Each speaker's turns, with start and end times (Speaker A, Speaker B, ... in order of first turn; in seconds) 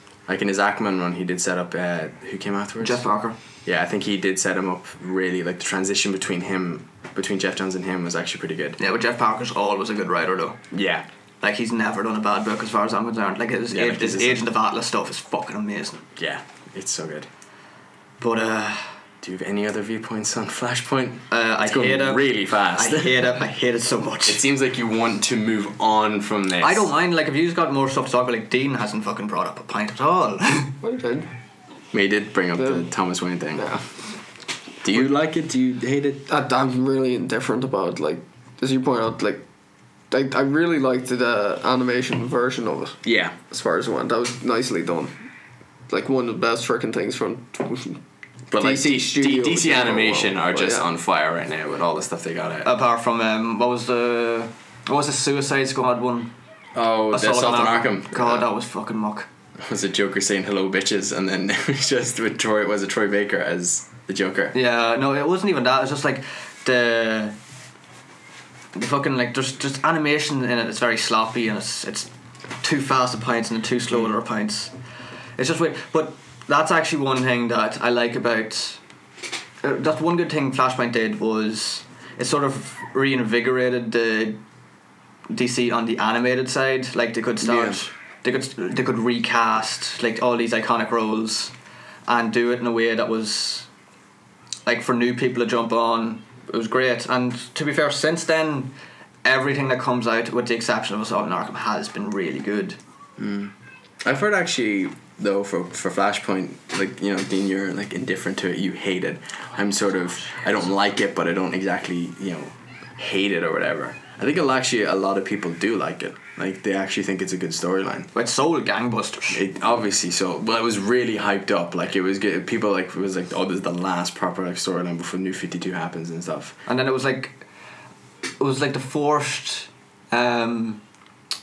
Speaker A: 0.3-3.0, 3.6-8.8, 10.7-11.0, 13.7-14.4, 16.2-17.3, 19.2-23.3, 24.3-26.9, 31.9-33.8, 34.8-36.2, 43.0-43.4, 48.5-52.7, 56.7-58.5, 59.6-64.5, 87.4-87.8, 103.2-103.5, 104.0-118.1, 119.3-126.6
Speaker B: 2.8-3.4, 8.8-10.6, 11.4-16.0, 18.2-18.9, 21.3-24.4, 26.6-30.7, 52.6-56.3, 57.1-59.3, 64.5-67.3, 68.7-72.1, 72.6-74.7, 75.4-78.8, 79.6-84.4, 85.3-91.5, 92.1-93.7, 94.7-98.7, 99.2-102.8, 118.1-119.4, 126.7-127.4, 128.4-130.8
Speaker C: 30.8-31.3, 32.6-32.9, 33.5-33.8, 36.3-39.4, 40.1-43.0, 43.5-45.1, 45.9-48.0, 48.6-50.8